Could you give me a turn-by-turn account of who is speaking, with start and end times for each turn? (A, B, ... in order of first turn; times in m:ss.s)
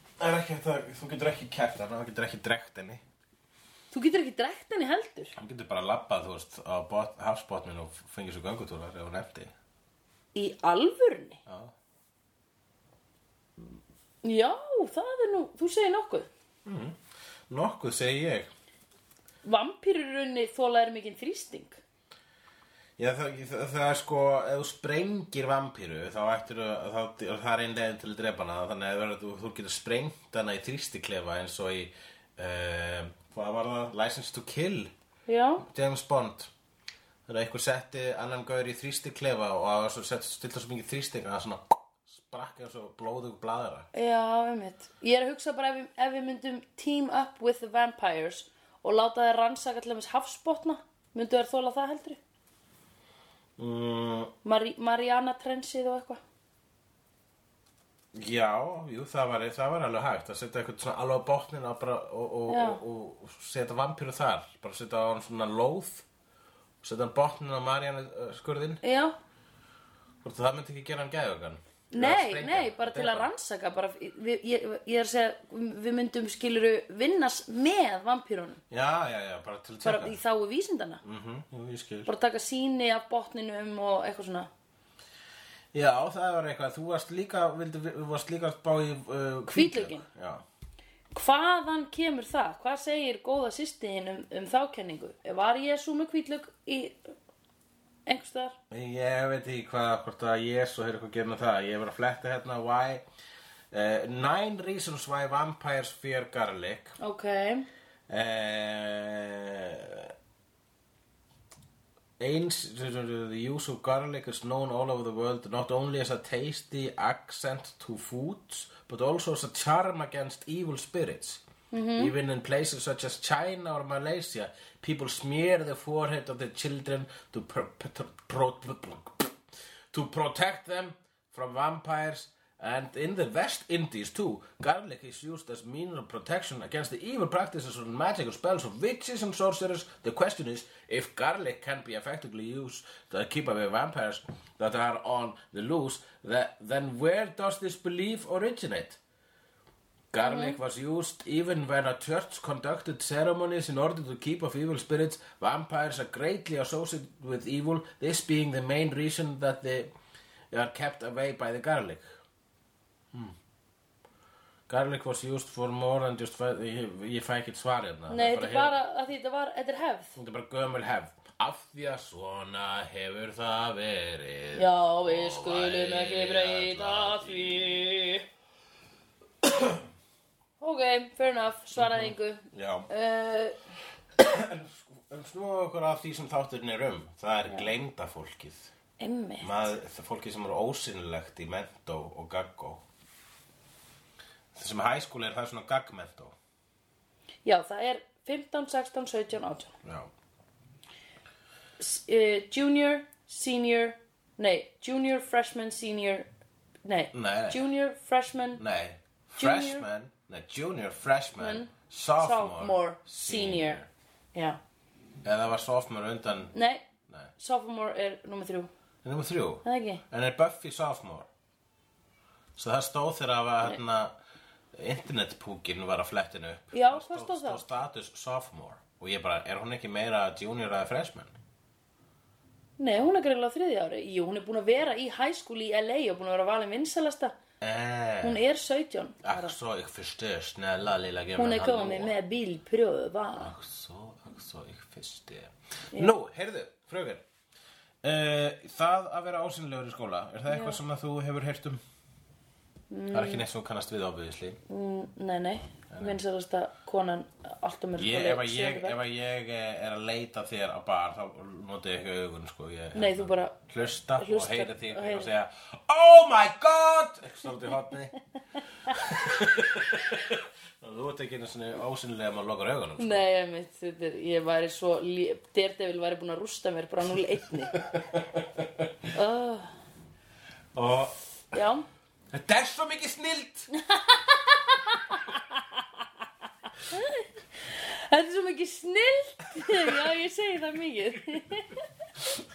0:00.2-0:03.0 A
0:03.9-0:05.3 B
0:05.4-0:09.5 A
0:10.3-0:11.4 B
0:11.5-0:11.7 A
0:14.2-0:16.3 B
0:16.6-0:17.0 A
0:17.5-0:18.5 A
0:19.4-0:21.8 B
0:23.0-0:34.9 A
0:35.3-0:35.6 B
0:35.6-0:36.5 A
0:37.3-0:43.9 A
0:43.9-0:52.2 B
0:53.6-0:54.3 A
0:54.4-0:56.2 B
0:58.1-1:06.0 A
1:02.5-1:02.8 B
1:06.8-1:08.8 A
1:08.8-1:09.1 B
1:10.2-1:13.3 A
1:11.9-1:18.6 B
1:18.7-1:20.2 A
1:19.8-1:21.0 B
1:21.0-1:22.1 A
1:22.0-1:24.5 B
1:25.7-1:30.4 A
1:29.5-1:30.0 B
1:31.1-1:37.1 B
1:38.0-1:38.6 B
1:38.7-1:43.0 A
1:43.7-1:47.0 A
1:47.0-1:47.7 B
1:48.1-1:50.1 A
1:52.2-2:01.4 A
2:01.7-2:02.1 B
2:02.0-2:09.4 A
2:09.9-2:29.0 A
2:30.1-2:39.9 A
2:30.2-2:30.6 B
2:40.5-2:42.2 A
2:44.7-2:48.8 A
2:48.1-2:50.2 B
2:50.2-2:57.8 A
2:54.5-2:58.2 B
2:59.4-2:59.8 A
3:00.6-3:03.6 B
3:01.8-3:02.9 A
3:04.2-3:08.7 A
3:09.0-3:09.7 B
3:09.4-3:12.8 A
3:14.5-3:16.3 A
3:17.4-3:19.7 B
3:19.8-3:20.1 A
3:21.8-3:26.3 B
3:26.8-3:28.6 B
3:27.1-3:27.6 A
3:28.6-3:33.9 A
3:29.4-3:29.8 B
3:31.4-3:33.8 B
3:35.2-3:36.5 A
3:36.5-3:36.9 B
3:37.4-3:38.7 B
3:39.0-3:41.3 A
3:39.6-3:40.0 B
3:42.6-3:44.1 A
3:44.7-3:51.4 A
3:46.7-3:47.6 B
3:52.8-3:57.4 B
3:57.6-3:58.4 A
3:58.2-3:59.5 B
3:59.2-4:02.1 A
4:01.4-4:03.5 B
4:03.4-4:07.2 A
4:08.0-4:11.8 A
4:10.5-4:10.8 B
4:12.9-4:13.4 B
4:13.1-4:14.6 A
4:14.7-4:19.0 B
4:15.9-4:16.2 A
4:18.0-4:28.2 A
4:22.9-4:23.6 B
4:24.2-4:25.3 B
4:28.9-4:33.2 A
4:33.0-4:37.7 B
4:37.7-4:39.1 A
4:39.1-4:39.7 B
4:40.7-4:41.2 A
4:41.5-4:41.8 B
4:42.3-4:43.7 A
4:43.7-4:45.6 B
4:46.9-4:51.8 B